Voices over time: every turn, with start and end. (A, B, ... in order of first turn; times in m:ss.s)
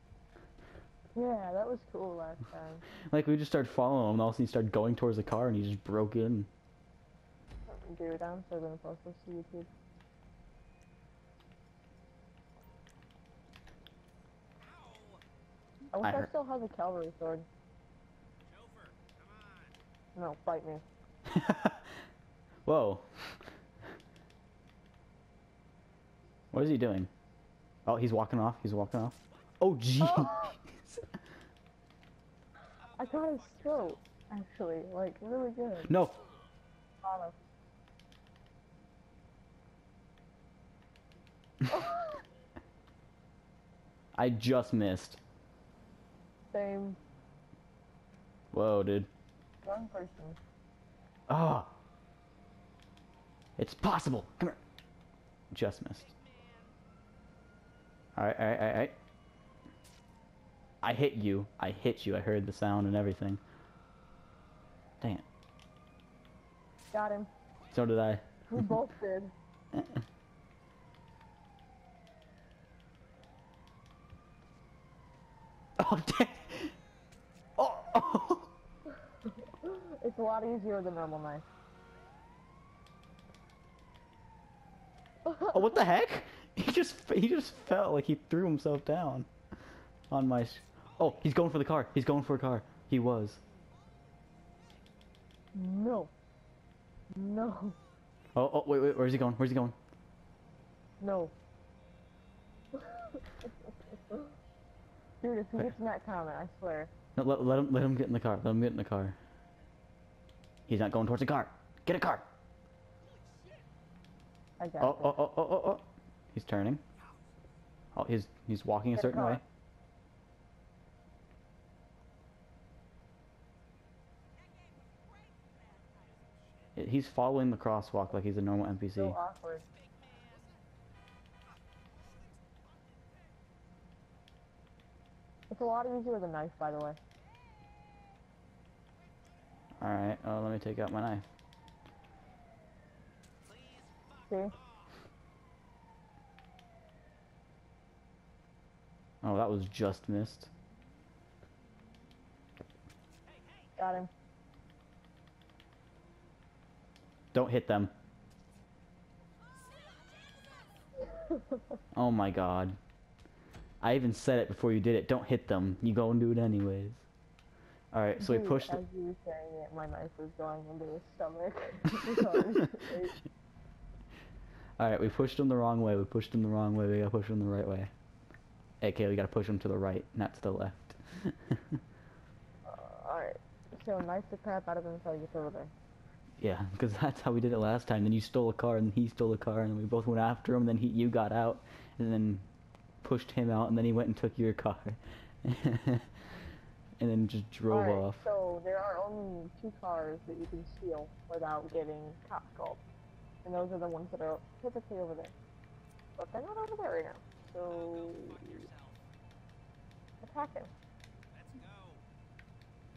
0:01.1-0:02.8 A
0:03.0-0:06.5 B
0:07.7-0:09.7 A
0:14.6-0:15.2 C
0:15.9-0:17.5 A
0:16.0-0:16.3 B
0:18.4-0:19.8 C
0:20.1-0:20.8 A
0:21.2-0:21.9 B
0:22.6-0:23.4 B
0:26.5-0:27.1 B
0:27.8-0:31.0 B
0:30.0-0:30.6 A
0:32.8-0:34.1 C
0:33.0-0:35.9 A
0:35.9-0:36.2 B
0:37.0-0:37.4 A
0:41.7-0:42.2 A
0:44.2-0:45.2 B
0:46.5-0:47.0 A
0:48.5-0:49.1 B
0:49.6-0:50.4 A
0:51.3-0:51.7 B
0:53.6-0:54.6 B
0:55.5-0:56.1 B
0:55.9-0:56.8 C
0:58.2-0:59.0 B
1:00.8-1:03.4 B
1:06.9-1:07.3 A
1:07.7-1:08.2 B
1:08.5-1:09.3 A
1:09.7-1:10.0 B
1:15.8-1:16.7 B
1:17.6-1:18.5 B
1:19.2-1:21.4 A
1:25.2-1:25.5 A
1:25.5-1:29.3 B
1:30.1-1:33.4 B
1:34.6-1:34.8 C
1:35.5-1:36.1 A
1:37.1-1:37.8 A
1:38.3-1:39.8 B
1:41.0-1:41.3 A
1:42.7-1:43.2 A
1:45.2-1:46.9 A
1:47.2-1:49.2 B
1:50.7-1:52.2 B
1:53.0-1:53.6 C
1:54.6-1:55.1 A
1:54.8-1:56.8 B
1:57.0-1:57.3 C
1:57.9-1:59.4 B
1:58.9-1:59.4 A
2:04.9-2:06.8 C
2:06.8-2:09.2 B
2:09.0-2:09.6 A
2:09.7-2:10.6 C
2:15.5-2:17.0 A
2:19.8-2:21.3 B
2:23.4-2:24.9 C
2:29.2-2:30.5 B
2:33.2-2:33.7 C
2:33.8-2:34.1 A
2:37.3-2:37.9 B
2:39.8-2:40.6 C
2:41.0-2:41.8 A
2:41.9-2:42.8 B
2:43.8-2:47.0 B
2:47.9-2:48.8 B
2:48.2-2:53.2 A
2:54.8-2:57.9 B
2:58.8-3:01.8 B
3:02.6-3:05.7 A
3:06.4-3:12.4 B
3:13.0-3:16.1 B
3:17.0-3:18.2 B
3:17.7-3:22.8 A
3:23.4-3:25.3 A
3:26.2-3:28.6 A
3:27.5-3:29.1 C
3:30.2-3:30.7 A
3:31.3-3:32.0 C